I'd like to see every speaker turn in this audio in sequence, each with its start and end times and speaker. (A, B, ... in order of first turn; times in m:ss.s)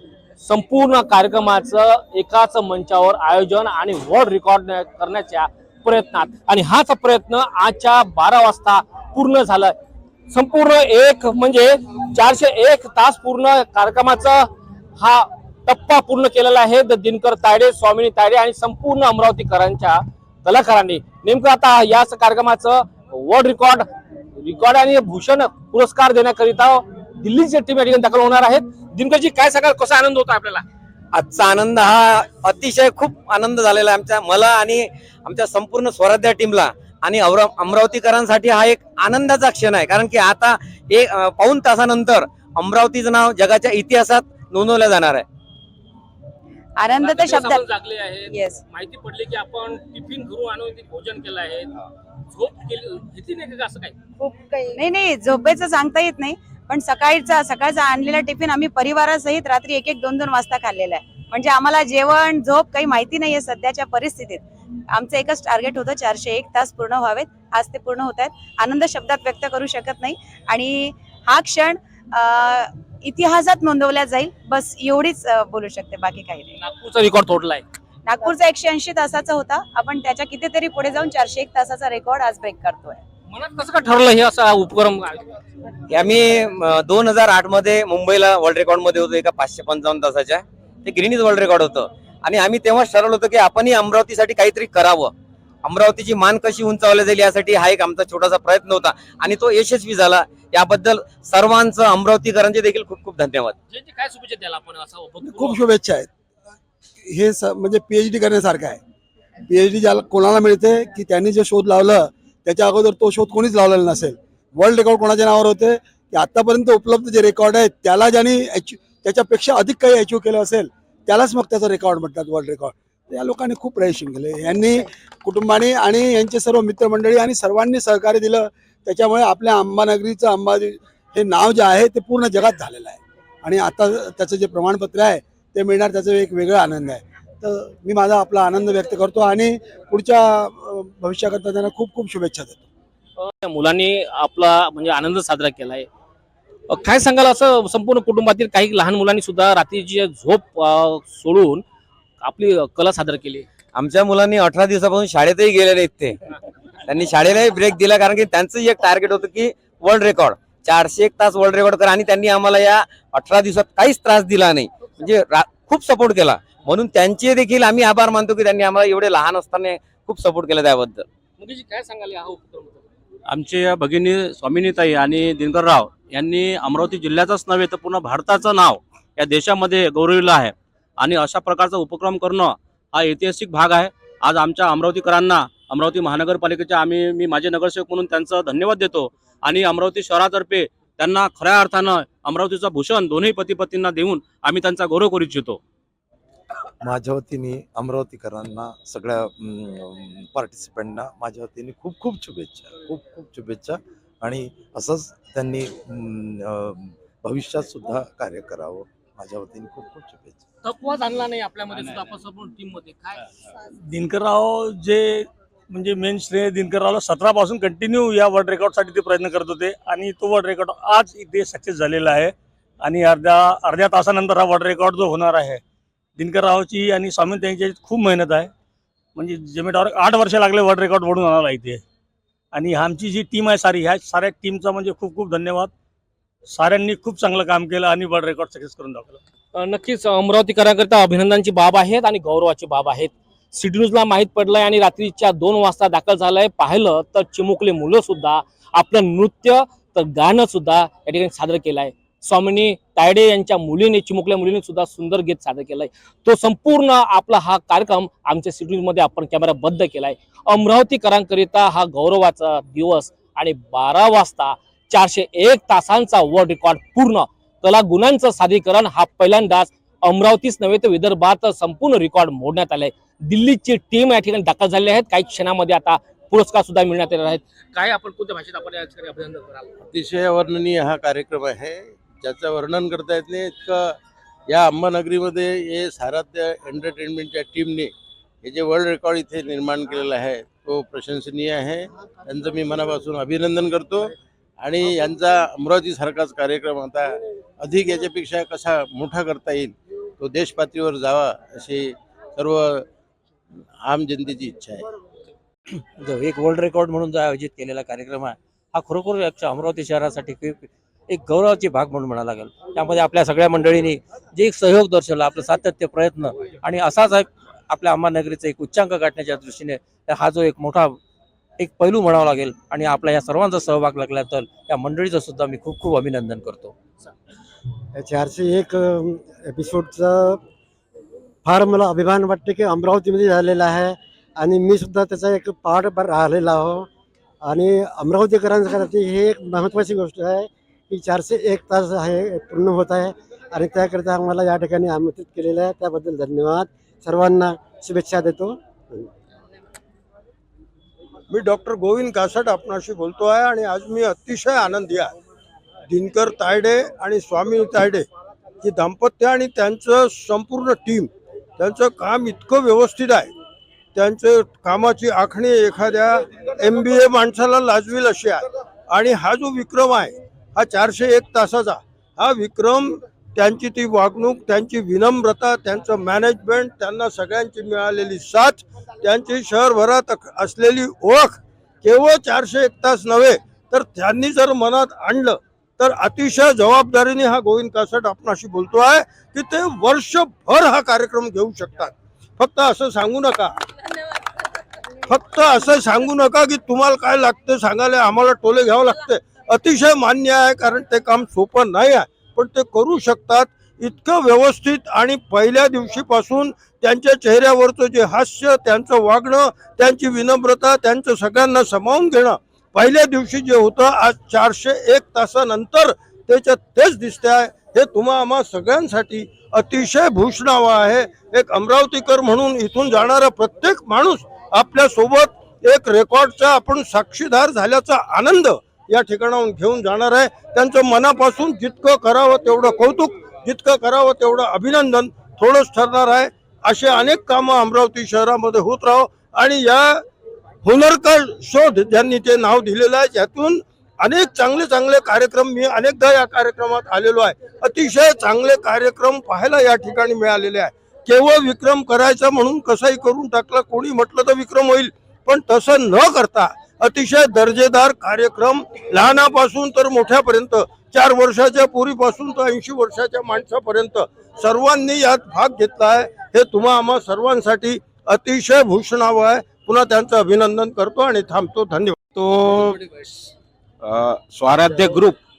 0:00.4-0:09.7 A
0:10.3-0:30.6 A
0:31.1-0:45.2 B
0:46.8-0:47.6 C
0:47.0-0:51.7 A
0:48.3-0:48.6 C
0:52.3-0:54.0 A
0:54.7-1:16.5 C
1:16.6-1:17.6 A
1:18.0-1:23.0 C
1:23.3-1:25.2 A
1:25.9-1:35.1 B
1:35.6-1:43.5 B
1:43.7-1:45.6 A
1:45.2-1:46.1 D
1:47.0-1:48.8 D
1:49.5-2:22.6 D
2:23.2-2:25.9 A
2:26.7-2:31.6 A
2:32.2-2:33.4 A
2:33.7-2:36.2 B
2:36.8-2:51.0 B
2:51.4-2:52.8 A
2:53.3-3:15.6 E
3:16.8-3:30.4 F
3:30.6-3:33.2 A
3:33.9-3:45.6 G
3:46.2-3:48.5 G
3:49.1-3:51.8 G
3:52.5-3:55.7 G
3:56.5-3:59.2 G
3:59.5-4:39.6 A
4:39.9-4:44.0 H
4:44.5-4:47.9 H
4:48.4-5:02.8 H
5:03.8-5:04.8 H
5:05.9-5:21.0 I
5:21.6-5:26.7 I
5:27.9-5:30.4 J
5:31.4-5:36.9 J
5:37.4-5:49.1 J
5:51.3-5:55.1 K
5:55.9-5:58.0 K
5:58.6-6:03.3 K
6:03.9-6:33.6 K
6:35.1-7:20.0 K
7:20.6-7:52.0 K
7:52.1-7:52.8 L
7:53.8-7:55.2 L